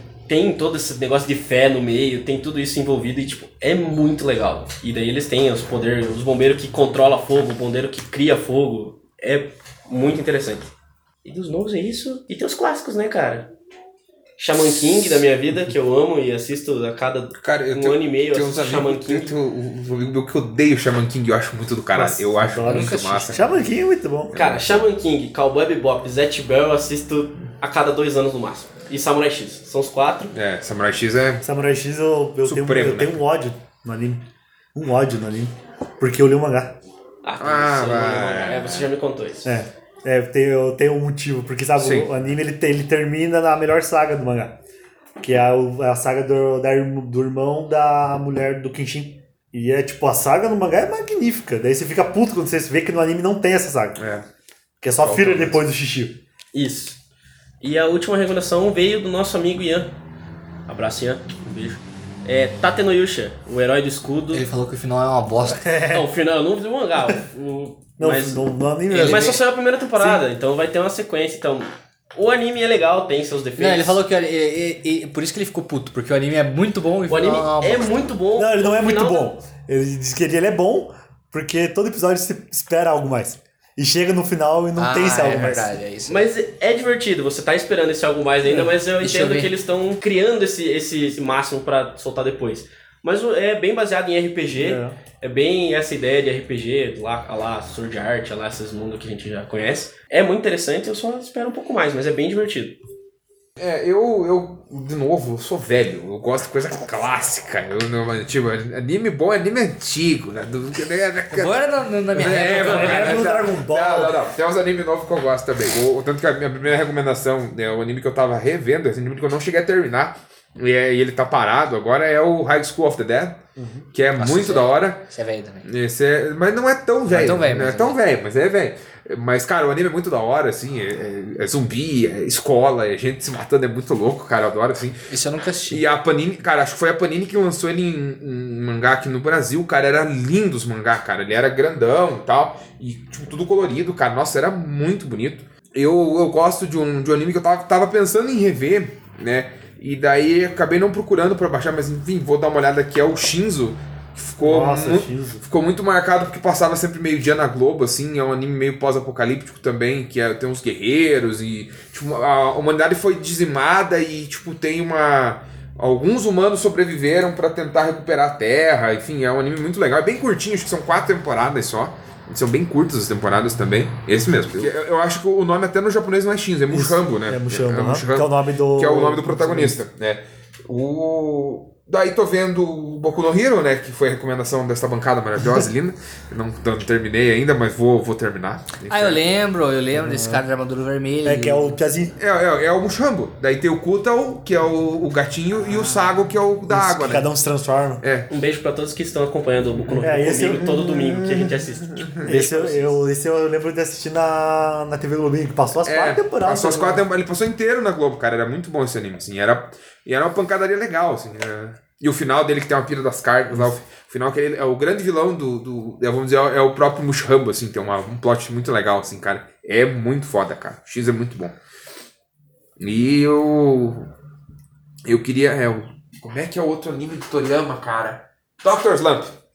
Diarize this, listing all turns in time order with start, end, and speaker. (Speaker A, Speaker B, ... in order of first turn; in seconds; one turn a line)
Speaker A: 0.3-10.7
Speaker A: 11.2-13.5
Speaker A: 14.4-19.3
Speaker B: 17.4-23.6
Speaker C: 21.9-24.4
Speaker D: 22.6-23.4
Speaker B: 24.3-24.8
Speaker A: 24.3-30.3
Speaker B: 30.3-31.4
Speaker C: 31.4-34.2
Speaker B: 32.4-33.2
Speaker C: 34.7-36.7
Speaker A: 37.2-39.5
Speaker B: 37.4-38.9
Speaker C: 39.4-44.5
Speaker B: 41.8-42.1
Speaker C: 45.2-54.0
Speaker B: 54.0-54.2
Speaker C: 54.8-56.2
Speaker B: 55.0-55.6
Speaker A: 56.5-57.0
Speaker A: 57.6-59.9
Speaker A: 60.7-64.4
Speaker D: 64.3-65.7
Speaker C: 65.5-66.1
Speaker A: 65.9-74.0
Speaker C: 68.0-69.4
Speaker D: 68.9-69.4
Speaker C: 69.9-70.2
Speaker D: 73.6-78.0
Speaker A: 77.1-79.3
Speaker C: 78.3-85.8
Speaker D: 84.8-86.2
Speaker A: 86.1-102.8
Speaker D: 89.0-89.5
Speaker C: 94.5-95.0
Speaker B: 103.6-123.4
Speaker D: 111.3-113.3
Speaker C: 112.6-114.2
Speaker C: 123.5-123.9
Speaker B: 123.9-125.0
Speaker D: 124.2-125.7
Speaker B: 125.6-135.0
Speaker D: 127.1-128.0
Speaker D: 135.1-135.8
Speaker B: 135.7-189.2
Speaker C: 154.4-155.4
Speaker C: 176.7-179.8
Speaker D: 188.9-191.8
Speaker C: 189.9-190.4
Speaker C: 191.2-192.2
Speaker B: 192.2-197.3
Speaker C: 196.7-198.0
Speaker B: 198.0-198.3
Speaker A: 198.3-203.0
Speaker C: 200.0-201.6
Speaker B: 201.9-202.4
Speaker C: 202.2-207.1
Speaker B: 205.8-221.5
Speaker B: 222.8-224.1
Speaker B: 225.0-229.3